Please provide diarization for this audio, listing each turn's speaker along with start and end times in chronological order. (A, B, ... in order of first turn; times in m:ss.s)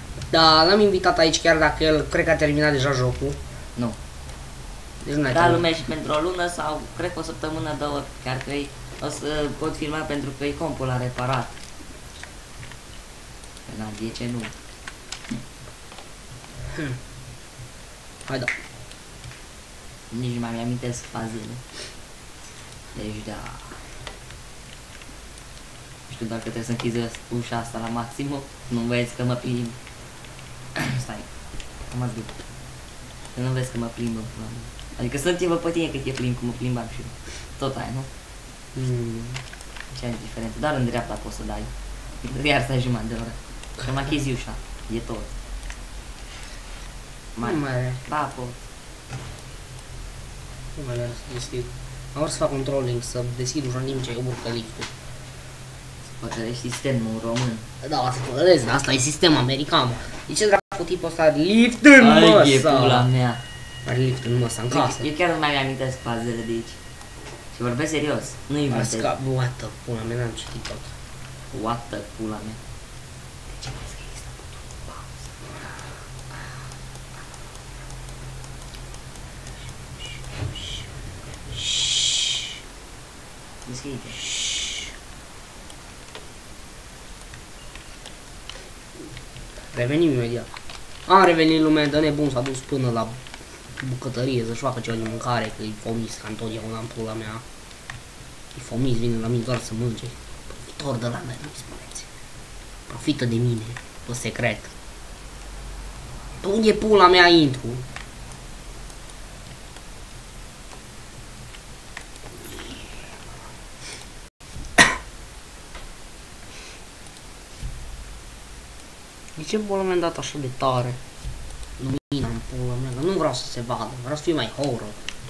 0:00.3-0:03.4 A
0:05.0-0:05.6 A
0:05.3-0:11.6 B
0:13.7-0:14.5 B
0:18.3-0:18.5 A
0:20.1-0:21.6 B
0:22.9-0:23.8 B
0:26.1-0:29.8 B
0:30.8-0:31.3 B
0:31.9-0:32.3 B
0:33.3-0:38.1 B
0:38.7-0:39.4 A
0:39.9-0:41.7 B
0:42.2-0:45.3 B
0:47.3-0:48.6 B
0:47.4-0:48.0 A
0:50.8-0:54.9 A
0:56.0-0:57.6 B
0:57.8-1:03.1 A
1:02.0-1:03.4 B
1:03.8-1:05.1 A
1:04.7-1:06.8 B
1:07.5-1:09.1 B
1:08.7-1:10.9 A
1:11.5-1:12.6 B
1:13.6-1:14.2 B
1:21.5-1:22.4 A
1:23.6-1:24.2 B
1:24.3-1:24.8 A
1:29.7-1:30.5 A
1:31.0-1:33.2 A
1:33.8-1:37.4 A
1:38.5-1:42.1 A
1:42.9-1:44.7 A
1:46.4-1:47.8 A
1:59.4-2:01.0 A
2:01.8-2:05.0 A